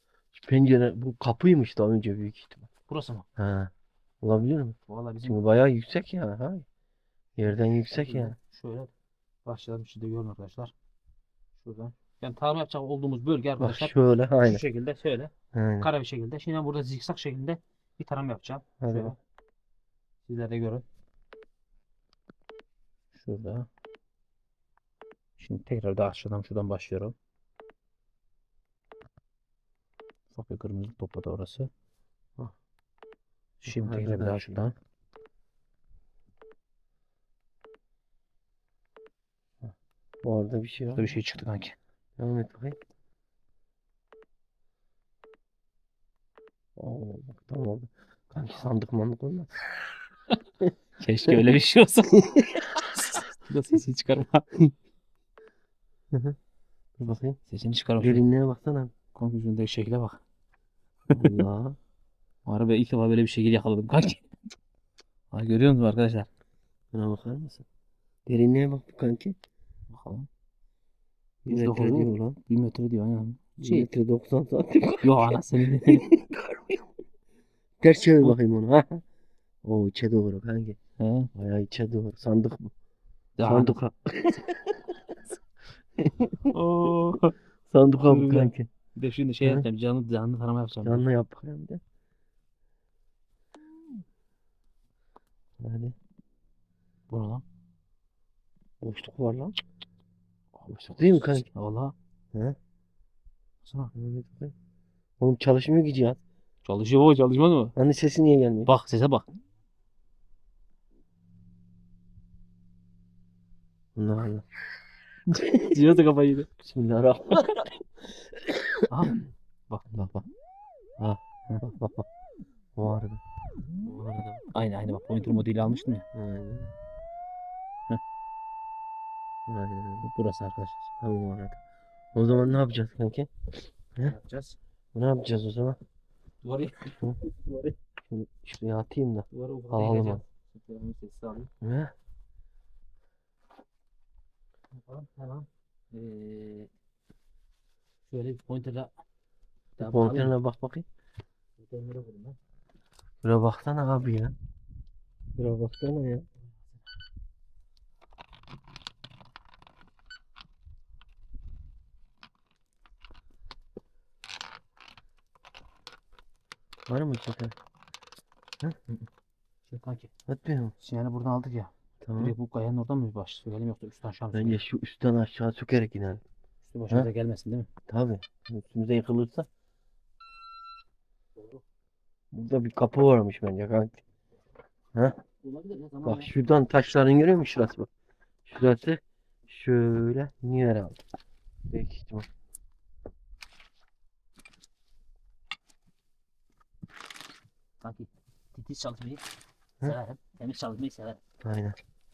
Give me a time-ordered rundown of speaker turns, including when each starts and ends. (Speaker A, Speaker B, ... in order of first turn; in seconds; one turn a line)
Speaker A: 0.3-2.7
Speaker B: 2.9-3.3
Speaker A: 3.4-6.7
Speaker B: 4.9-5.4
Speaker A: 7.4-8.4
Speaker B: 7.5-8.9
Speaker B: 9.4-10.7
Speaker B: 11.6-19.2
Speaker A: 13.6-14.6
Speaker A: 15.5-15.9
Speaker A: 18.8-19.1
Speaker B: 20.2-20.9
Speaker B: 23.1-23.7
Speaker B: 25.4-27.1
Speaker B: 30.3-31.7
Speaker B: 33.6-34.8
Speaker A: 33.7-34.7
Speaker A: 39.6-41.2
Speaker B: 41.0-41.8
Speaker A: 42.2-42.8
Speaker A: 46.8-49.7
Speaker B: 51.0-52.2
Speaker A: 52.3-52.7
Speaker B: 53.0-54.5
Speaker A: 56.1-56.4
Speaker A: 57.0-57.4
Speaker B: 57.5-58.2
Speaker A: 58.0-58.9
Speaker B: 59.1-60.2
Speaker B: 61.1-61.4
Speaker A: 61.1-61.8
Speaker B: 62.5-64.3
Speaker B: 65.3-66.3
Speaker A: 66.9-67.7
Speaker A: 68.3-69.4
Speaker B: 69.9-70.3
Speaker A: 71.5-72.4
Speaker B: 71.5-73.9
Speaker A: 73.6-76.8
Speaker B: 75.0-76.1
Speaker A: 77.8-79.0
Speaker A: 79.6-80.8
Speaker B: 81.0-81.3
Speaker A: 81.3-82.7
Speaker B: 83.4-83.8
Speaker A: 83.5-85.0
Speaker A: 86.0-86.5
Speaker B: 86.5-87.3
Speaker A: 87.7-88.7
Speaker B: 88.0-91.1
Speaker A: 90.8-91.8
Speaker A: 95.6-96.0
Speaker B: 97.1-97.4
Speaker A: 98.8-99.6
Speaker B: 100.6-102.0
Speaker A: 100.7-101.5
Speaker B: 103.6-103.9
Speaker A: 104.0-104.5
Speaker A: 105.2-106.2
Speaker B: 106.7-107.8
Speaker A: 107.8-108.7
Speaker B: 108.7-109.3
Speaker A: 114.0-114.5
Speaker B: 115.3-116.5
Speaker A: 115.4-115.7
Speaker A: 116.6-117.8
Speaker A: 118.3-119.1
Speaker B: 118.9-119.9
Speaker A: 119.9-120.3
Speaker A: 121.0-122.1
Speaker A: 122.8-123.2
Speaker A: 123.9-124.4
Speaker B: 124.5-126.1
Speaker A: 126.1-126.7
Speaker A: 129.5-130.1
Speaker B: 130.0-130.9
Speaker A: 131.0-131.6
Speaker A: 132.2-133.3
Speaker B: 134.0-134.6
Speaker A: 134.9-135.8
Speaker B: 136.4-137.8
Speaker A: 138.1-140.2
Speaker B: 139.3-141.5
Speaker A: 141.6-141.9
Speaker B: 144.7-146.7
Speaker B: 148.1-148.9
Speaker B: 149.8-150.3
Speaker A: 149.8-150.9
Speaker B: 151.6-152.4
Speaker A: 153.2-154.3
Speaker A: 155.4-156.3
Speaker B: 156.4-156.9
Speaker A: 166.9-167.6
Speaker B: 169.7-170.1
Speaker A: 170.3-170.7
Speaker B: 170.8-174.6
Speaker A: 172.0-172.3
Speaker A: 174.3-176.2
Speaker B: 176.6-177.7
Speaker A: 177.9-179.5
Speaker B: 181.4-181.6
Speaker A: 182.3-184.0
Speaker A: 184.9-185.2
Speaker B: 185.4-186.3
Speaker A: 186.1-187.9
Speaker A: 188.5-191.0
Speaker A: 191.7-192.3
Speaker B: 197.8-199.2
Speaker B: 199.8-201.2
Speaker A: 201.4-201.8